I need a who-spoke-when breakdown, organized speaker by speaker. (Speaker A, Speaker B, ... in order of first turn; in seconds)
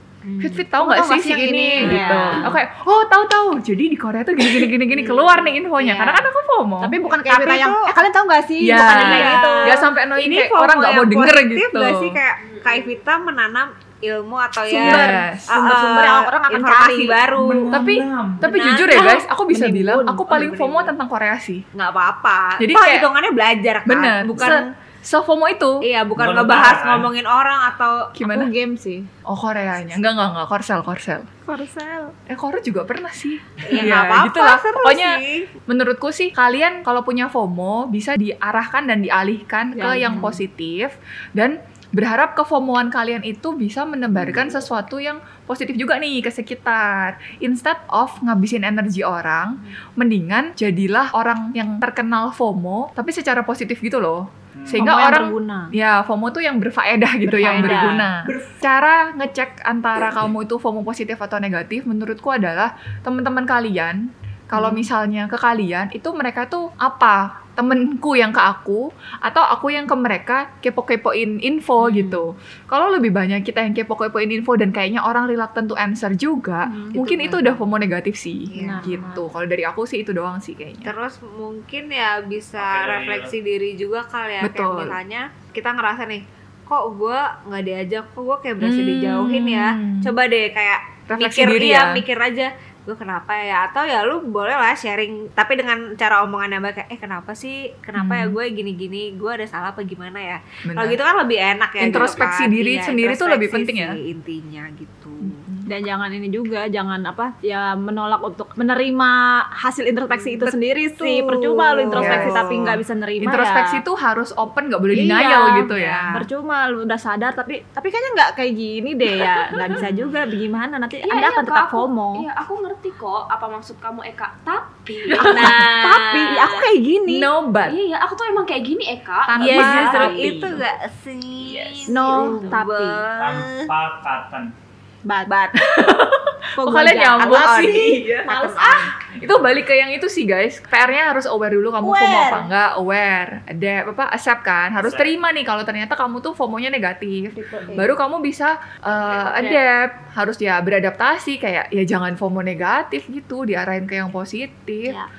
Speaker A: 0.4-7.0, 8.6-12.2, 14.8-15.6, 17.7-21.7, 22.6-23.1, 23.9-25.8, 28.1-28.5, 29.3-31.3, 32.3-80.9, 84.4-85.0, 88.6-90.1, 91.1-92.0, 98.0-98.4, 100.7-101.0, 101.8-104.0, 105.2-105.7, 111.9-112.4, 113.2-116.1, 127.1-127.8, 129.3-130.6, 131.6-132.4, 135.6-155.0
Speaker B: 0.7-2.5, 6.8-9.9, 14.7-17.2, 18.6-20.9, 28.3-29.1, 31.5-32.1, 39.8-40.4, 54.7-55.7, 57.2-58.1, 76.7-76.9, 78.6-79.3, 105.7-113.8, 114.9-122.3, 125.1-127.3, 129.4-130.5, 131.9-133.1, 135.1-135.6, 136.6-138.9, 141.8-142.5, 147.3-148.0
Speaker C: 1.8-2.5, 4.9-6.2, 7.2-7.9, 8.8-17.8, 18.4-19.0, 21.7-24.7, 25.8-28.4, 33.6-35.5, 57.4-58.0, 76.9-77.6, 78.5-79.1, 80.8-105.4, 111.0-112.8, 115.6-116.2, 119.8-120.1, 129.6-133.7, 137.2-138.0, 147.6-147.9
Speaker D: 12.5-12.9, 121.0-126.7, 127.6-130.3, 132.3-132.6, 149.2-149.6
Speaker E: 17.3-18.5, 26.1-27.1, 44.1-44.6, 54.6-54.9, 58.1-58.6, 82.6-83.3, 133.1-134.5, 144.8-145.2